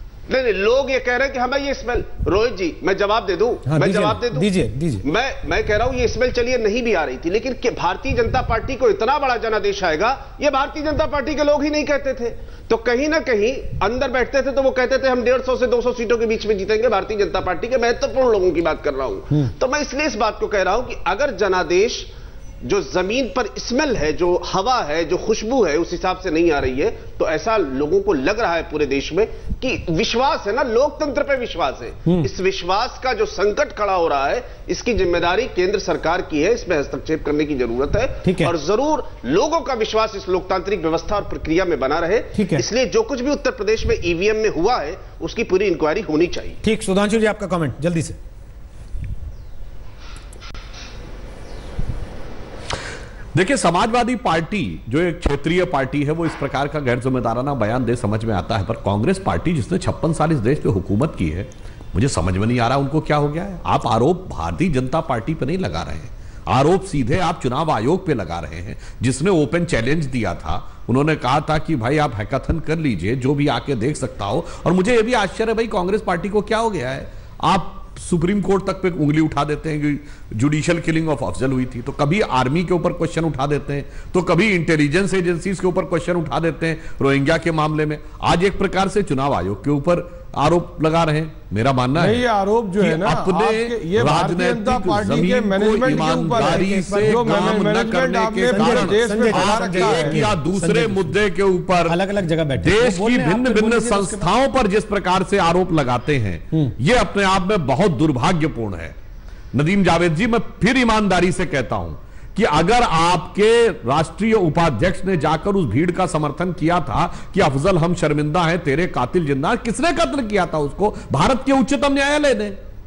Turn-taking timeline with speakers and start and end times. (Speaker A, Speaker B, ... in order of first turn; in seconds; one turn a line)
Speaker A: 0.3-4.5
Speaker B: 3.6-5.0
Speaker A: 5.0-22.1
Speaker A: 22.6-46.6
Speaker B: 38.2-38.5
Speaker B: 42.3-42.6
Speaker B: 46.6-48.2
Speaker C: 53.4-92.2
Speaker D: 92.0-100.2
Speaker C: 92.8-102.0
Speaker B: 95.9-97.7
Speaker B: 98.4-101.2
Speaker B: 101.9-104.3
Speaker C: 102.6-109.0
Speaker C: 109.5-122.6